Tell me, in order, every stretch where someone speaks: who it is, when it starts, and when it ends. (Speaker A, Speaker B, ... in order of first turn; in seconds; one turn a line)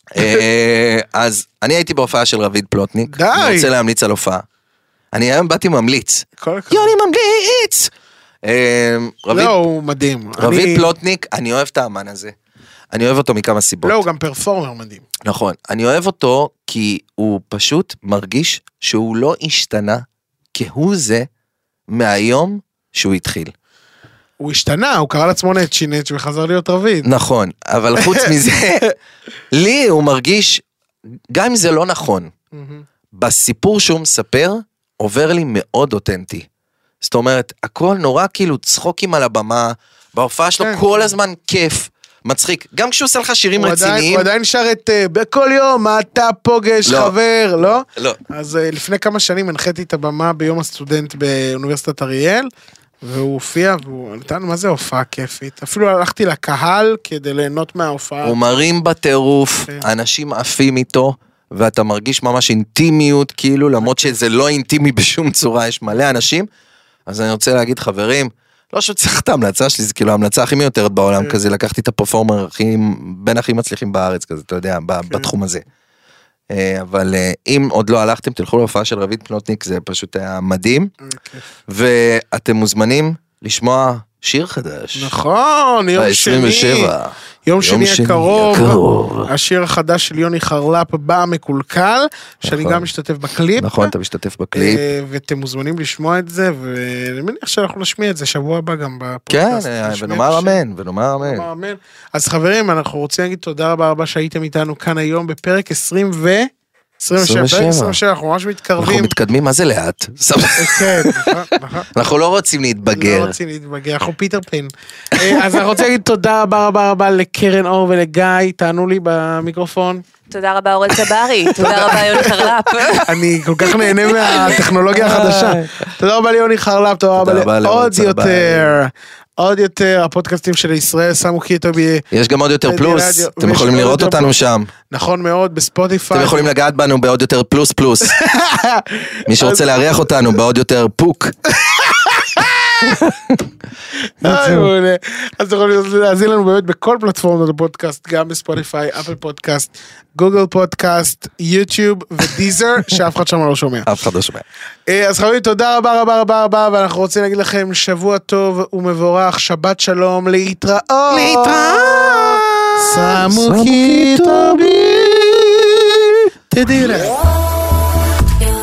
Speaker A: 0.1-4.4
Speaker B: 3.1-3.7
Speaker A: 5.1-7.9
Speaker B: 6.4-6.9
Speaker A: 8.4-9.5
Speaker B: 9.3-10.9
Speaker A: 10.4-12.3
Speaker A: 12.9-14.0
Speaker B: 13.8-15.0
Speaker A: 15.2-21.3
Speaker A: 21.9-23.5
Speaker B: 24.4-27.1
Speaker A: 27.0-28.9
Speaker B: 28.0-28.3
Speaker A: 29.5-30.6
Speaker A: 31.3-32.3
Speaker B: 32.5-32.8
Speaker A: 33.1-36.5
Speaker A: 37.0-44.3
Speaker B: 40.6-41.1
Speaker B: 43.6-52.5
Speaker A: 46.9-47.1
Speaker B: 53.0-58.5
Speaker A: 58.2-66.5
Speaker B: 63.8-64.2
Speaker A: 67.1-75.6
Speaker A: 76.5-80.9
Speaker B: 81.0-81.5
Speaker A: 81.7-85.1
Speaker B: 84.9-86.9
Speaker A: 86.0-89.3
Speaker B: 87.5-93.9
Speaker A: 92.4-92.9
Speaker A: 93.6-94.8
Speaker B: 94.5-100.6
Speaker A: 99.3-101.5
Speaker B: 101.2-109.1
Speaker A: 107.2-108.0
Speaker A: 108.8-111.3
Speaker B: 110.6-111.9
Speaker A: 111.9-113.3
Speaker B: 112.9-120.0
Speaker C: 120.3-123.0
Speaker B: 121.6-122.3
Speaker A: 121.6-122.2
Speaker B: 123.0-132.1
Speaker A: 124.2-125.8
Speaker A: 127.2-128.8
Speaker A: 132.1-134.7
Speaker B: 132.6-134.3
Speaker B: 134.9-136.5
Speaker A: 136.1-138.2
Speaker B: 138.1-139.8
Speaker A: 139.3-141.3
Speaker B: 141.6-143.1
Speaker A: 142.8-143.4
Speaker B: 144.2-153.9
Speaker A: 144.2-144.7
Speaker A: 153.8-154.4
Speaker B: 154.9-162.1
Speaker A: 161.1-166.2
Speaker B: 162.8-164.7
Speaker B: 166.5-167.1